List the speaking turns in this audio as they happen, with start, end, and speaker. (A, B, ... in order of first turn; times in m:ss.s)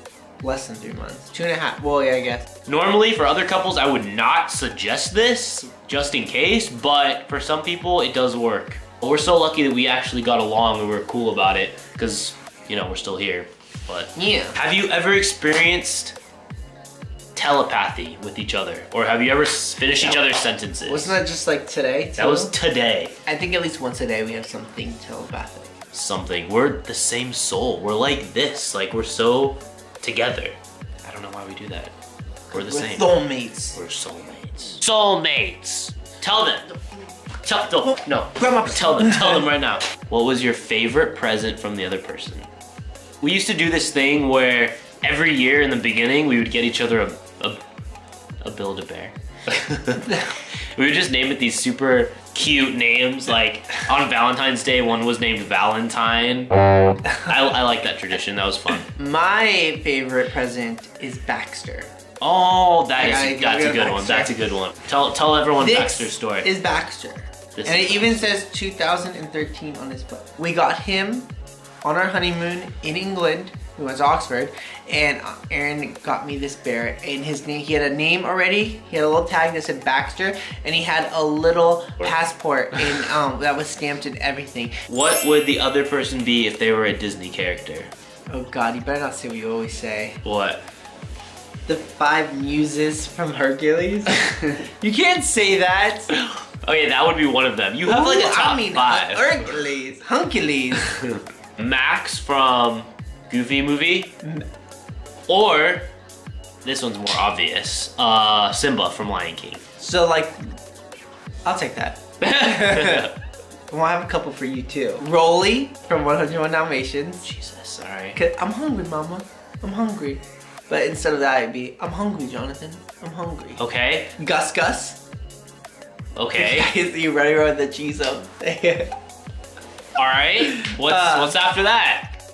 0:00.4-0:02.5 A
0:02.7-0:16.2 B
0:14.2-0:14.6 A
0:17.4-0:21.2 B
0:20.8-0:22.5 A
0:22.2-0:23.1 B
0:23.3-0:25.8 A
0:25.9-0:31.9 B
0:32.5-0:33.1 B
0:32.5-0:33.8 A
0:33.7-0:36.7 B
0:37.4-0:42.5 B
0:38.4-0:39.5 A
0:43.2-0:47.6 B
0:48.4-0:50.2 B
0:50.8-0:56.5 B
0:57.2-0:58.9 B
0:59.0-1:01.9 A
1:02.2-1:06.5 B
1:03.0-1:04.4 A
1:05.6-1:11.3 A
1:07.6-1:08.2 B
1:11.8-1:24.8 A
1:24.9-1:27.9 B
1:28.3-1:30.2 A
1:30.2-1:30.6 B
1:31.7-1:36.1 A
1:36.1-1:39.5 B
1:37.8-1:40.9 A
1:40.9-1:44.2 B
1:45.3-1:45.9 B
1:46.6-1:49.6 B
1:49.8-1:50.4 A
1:51.4-1:53.1 A
1:52.6-1:53.1 B
1:53.7-1:57.3 A
1:57.2-1:58.2 B
1:58.2-2:03.6 A
2:03.6-2:04.1 B
2:04.2-2:05.0 A
2:06.2-2:06.7 B
2:06.3-2:08.9 A
2:10.0-2:12.2 B
2:10.5-2:11.4 A